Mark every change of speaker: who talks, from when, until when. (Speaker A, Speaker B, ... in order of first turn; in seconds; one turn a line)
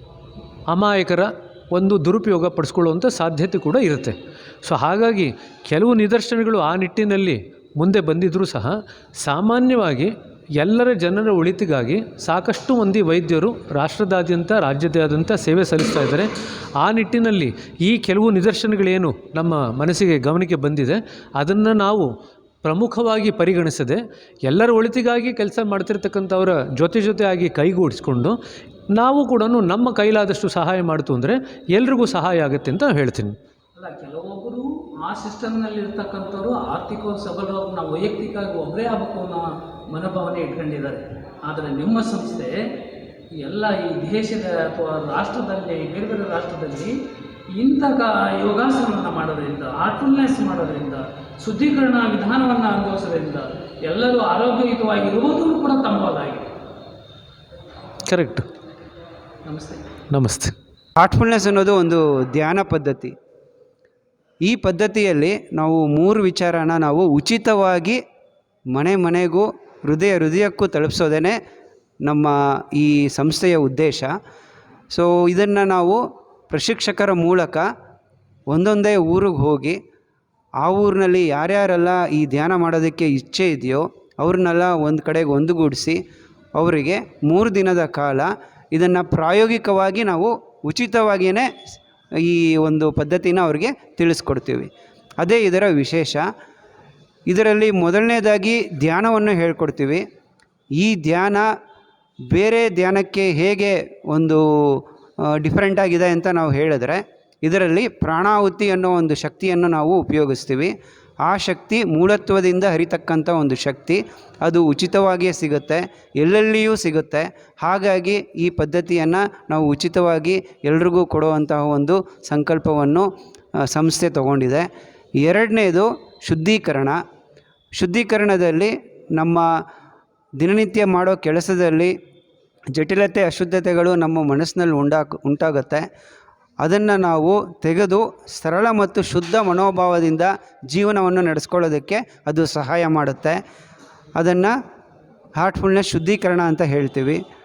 Speaker A: 0.7-22.1
Speaker A: 22.6-28.4
Speaker A: 28.9-33.4
Speaker B: 33.8-42.5
Speaker B: 43.4-46.9
Speaker B: 47.5-56.5
Speaker A: 58.1-58.5
Speaker B: 59.5-59.8
Speaker A: 60.1-60.5
Speaker C: 61.0-63.1
Speaker C: 64.4-68.0
Speaker C: 68.7-71.4
Speaker C: 72.0-74.1
Speaker C: 74.9-76.0
Speaker C: 76.5-77.7
Speaker C: 78.5-79.8
Speaker C: 80.6-86.0
Speaker C: 86.5-91.5
Speaker C: 92.2-94.7
Speaker C: 95.2-96.3
Speaker C: 97.3-100.0
Speaker C: 100.8-101.5
Speaker C: 102.3-110.7
Speaker C: 111.2-123.1
Speaker C: 123.6-124.7
Speaker C: 125.2-127.0
Speaker C: 127.8-129.4
Speaker C: 130.4-131.9
Speaker C: 132.7-135.8
Speaker C: 136.6-143.4
Speaker C: 144.2-144.5
Speaker C: 145.4-147.2